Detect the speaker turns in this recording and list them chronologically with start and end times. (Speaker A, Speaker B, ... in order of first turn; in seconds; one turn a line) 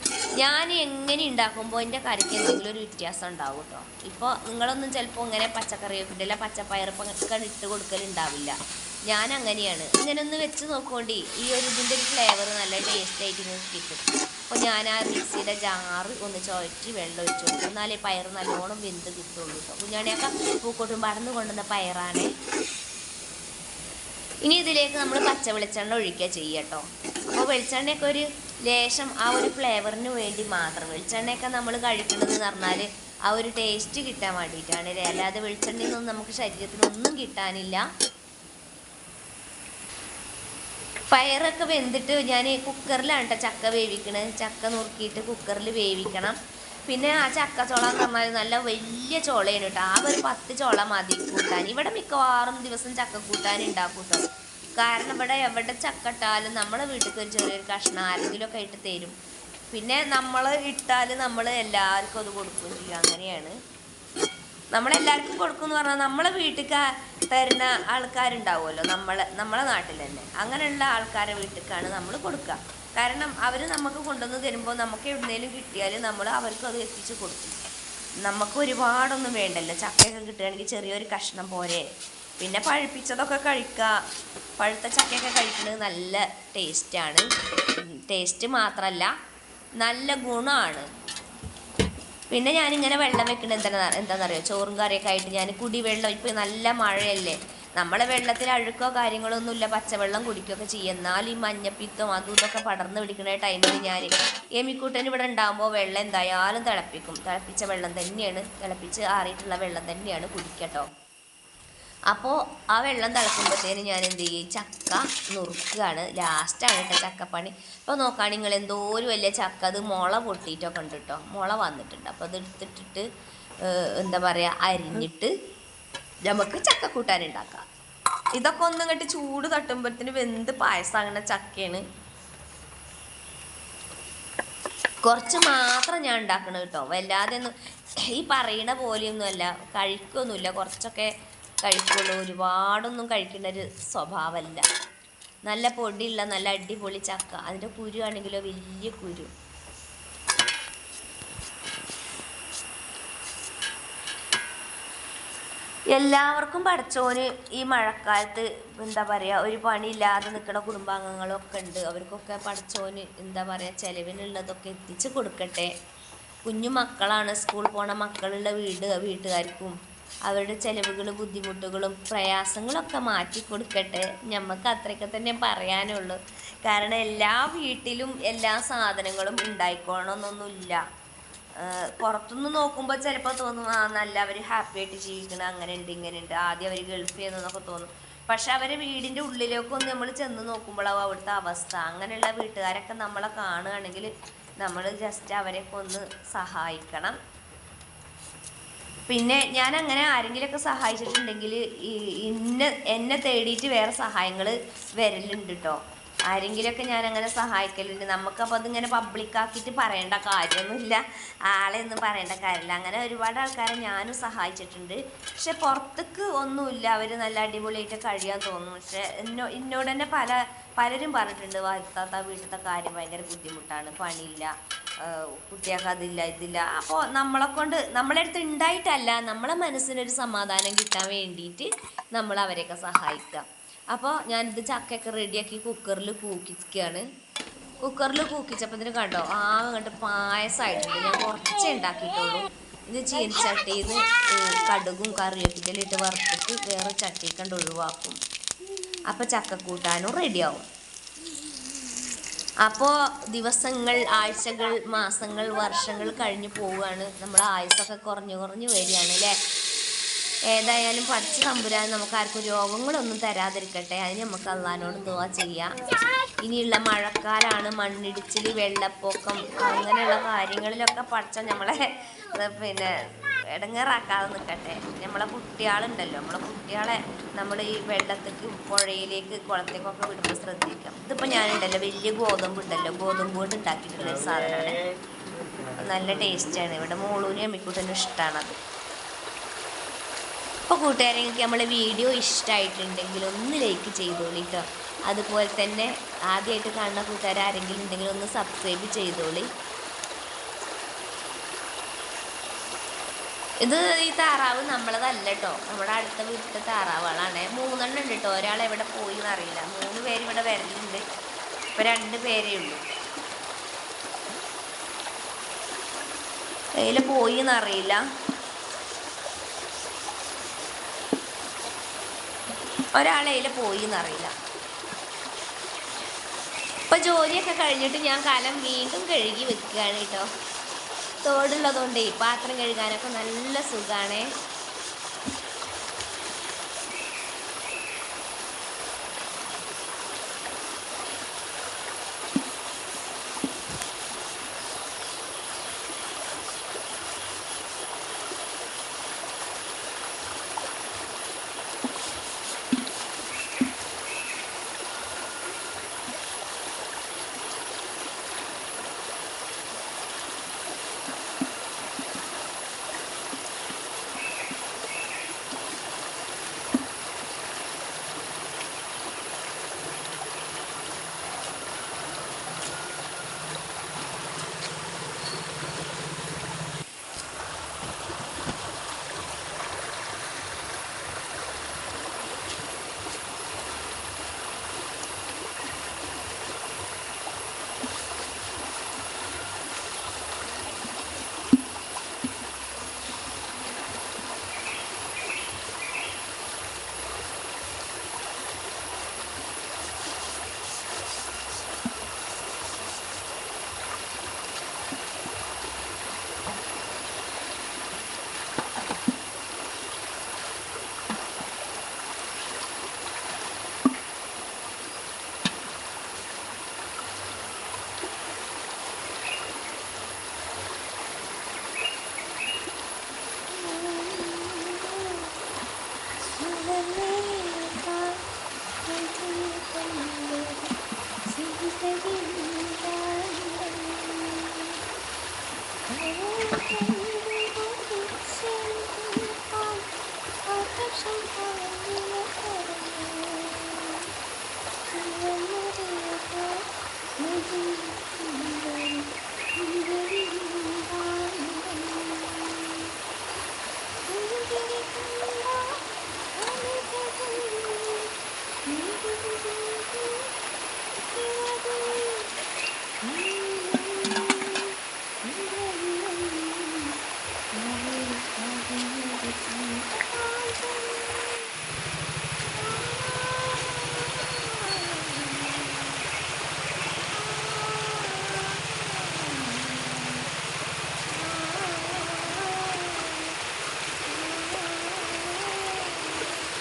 Speaker A: 0.4-8.5
Speaker A: 9.1-22.3
Speaker A: 24.4-37.8
Speaker A: 41.1-46.4
Speaker A: 46.9-54.2
Speaker A: 54.7-59.1
Speaker A: 59.7-63.5
Speaker A: 64.7-77.6
Speaker A: 78.2-81.8
Speaker A: 82.4-83.9
Speaker A: 84.6-87.2
Speaker A: 88.1-89.1
Speaker A: 89.8-90.8
Speaker A: 92.3-110.8
Speaker A: 112.1-123.0
Speaker A: 123.7-125.3
Speaker A: 126.3-127.6
Speaker A: 128.3-131.8
Speaker A: 135.0-141.1
Speaker A: 141.6-144.6
Speaker A: 145.5-149.3
Speaker A: 155.9-165.7
Speaker A: 166.4-169.7
Speaker A: 170.3-180.8
Speaker A: 181.6-194.1
Speaker A: 194.6-197.2
Speaker A: 199.1-205.8
Speaker A: 206.3-224.5
Speaker A: 225.0-237.1
Speaker A: 237.8-248.2
Speaker A: 249.1-250.6
Speaker A: 252.6-259.3
Speaker A: 260.5-265.7
Speaker A: 266.4-271.8
Speaker A: 272.3-272.9
Speaker A: 273.5-284.8
Speaker A: 285.8-288.5
Speaker A: 290.7-299.5
Speaker A: 303.6-311.0
Speaker A: 311.8-312.8
Speaker A: 316.8-318.0
Speaker A: 322.9-324.3
Speaker A: 326.9-330.2
Speaker A: 331.2-334.2
Speaker B: 423.7-424.4
Speaker B: 426.4-428.0
Speaker A: 426.5-427.2
Speaker B: 428.9-430.5
Speaker B: 431.4-433.1
Speaker B: 436.1-439.7
Speaker A: 438.2-438.5
Speaker B: 440.6-443.6
Speaker A: 441.4-441.9
Speaker A: 442.5-442.9
Speaker A: 445.0-445.4
Speaker B: 445.1-446.5
Speaker B: 447.2-448.9
Speaker A: 448.2-448.5
Speaker A: 449.7-451.5
Speaker B: 449.9-450.2
Speaker B: 451.4-451.9
Speaker A: 454.2-454.7
Speaker B: 454.2-455.6
Speaker A: 456.5-457.7
Speaker B: 456.5-458.0
Speaker B: 458.8-460.2
Speaker A: 461.3-461.8
Speaker B: 461.3-461.7
Speaker B: 463.1-464.2
Speaker A: 463.5-463.8
Speaker A: 465.3-466.4
Speaker B: 465.5-466.3
Speaker A: 467.7-471.2
Speaker B: 468.6-469.1
Speaker A: 474.6-475.4
Speaker A: 477.9-478.3
Speaker A: 479.0-479.9
Speaker A: 481.1-483.1
Speaker A: 484.1-485.6